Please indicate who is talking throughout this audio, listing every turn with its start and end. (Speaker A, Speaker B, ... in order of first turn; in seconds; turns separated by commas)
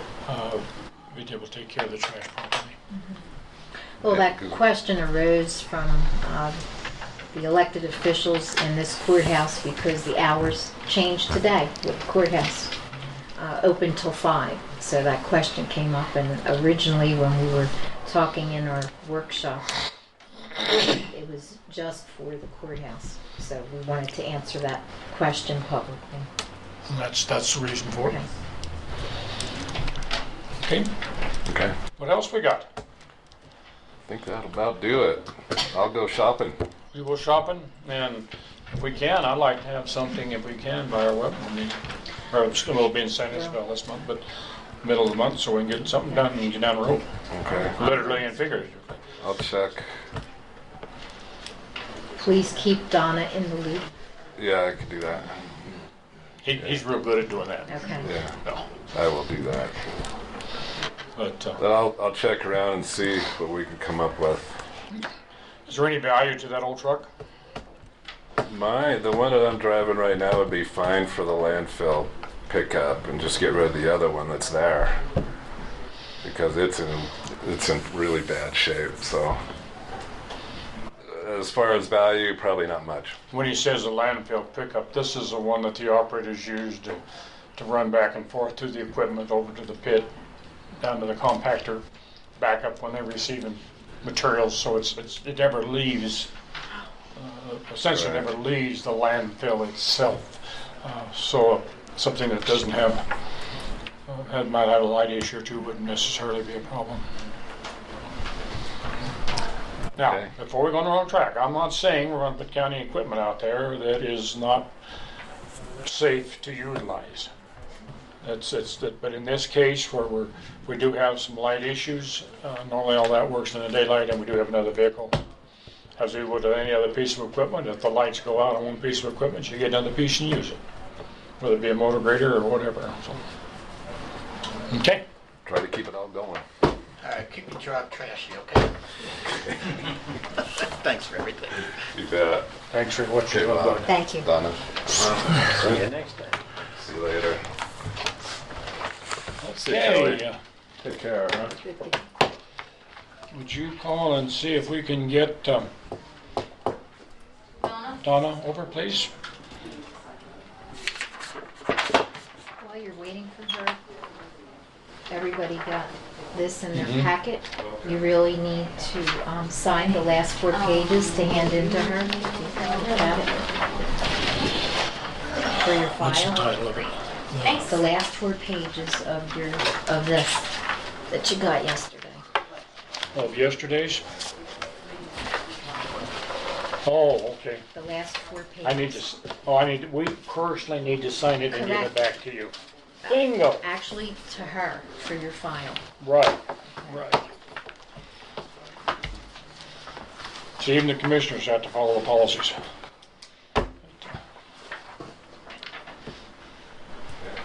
Speaker A: 0.2-2.8, Speaker B: 4.0-6.6, Speaker C: 4.0-4.6, Speaker B: 7.3-12.7, Speaker B: 13.4-19.8, Speaker B: 20.6-26.3, Speaker A: 26.9-28.2, Speaker A: 30.6-30.9, Speaker C: 31.5-31.7, Speaker A: 31.9-32.7, Speaker C: 34.1-36.6, Speaker A: 36.9-44.2, Speaker A: 44.8-49.0, Speaker C: 47.3-47.8, Speaker C: 49.2-49.9, Speaker B: 52.2-53.9, Speaker C: 54.4-55.5, Speaker A: 56.4-57.9, Speaker B: 57.7-58.1, Speaker C: 58.0-58.3, Speaker C: 58.9-59.8, Speaker A: 61.1-61.6, Speaker C: 61.6-64.6, Speaker A: 65.7-67.1, Speaker C: 68.4-75.0, Speaker C: 76.2-79.4, Speaker C: 81.0-83.1, Speaker A: 83.3-87.0, Speaker A: 87.5-90.1, Speaker A: 90.8-91.8, Speaker A: 92.4-96.3, Speaker A: 97.2-103.0, Speaker C: 97.9-98.2, Speaker A: 104.1-107.1, Speaker A: 110.0-114.7, Speaker C: 110.0-110.3, Speaker A: 115.8-117.3, Speaker A: 118.2-125.2, Speaker A: 126.0-130.6, Speaker A: 131.4-133.2, Speaker A: 134.7-135.0, Speaker C: 135.4-136.4, Speaker D: 137.0-138.8, Speaker C: 139.3-139.7, Speaker D: 140.5-141.7, Speaker C: 141.9-142.5, Speaker A: 142.7-143.9, Speaker C: 143.3-145.8, Speaker B: 143.8-144.2, Speaker A: 145.5-146.2, Speaker C: 146.8-147.4, Speaker C: 149.4-150.2, Speaker A: 149.4-150.4, Speaker C: 150.8-151.5, Speaker B: 151.6-152.0, Speaker A: 153.3-155.7, Speaker A: 158.0-159.1, Speaker B: 162.6-163.8, Speaker B: 165.1-173.4, Speaker A: 166.7-167.1, Speaker B: 175.5-176.6, Speaker A: 176.0-177.7, Speaker B: 177.6-180.5, Speaker B: 181.1-182.2, Speaker A: 183.1-184.0, Speaker A: 186.8-187.6, Speaker B: 187.7-189.0, Speaker A: 188.6-192.5, Speaker B: 191.5-191.9, Speaker B: 193.0-195.8, Speaker A: 193.1-193.6, Speaker A: 196.0-197.2, Speaker A: 200.6-202.6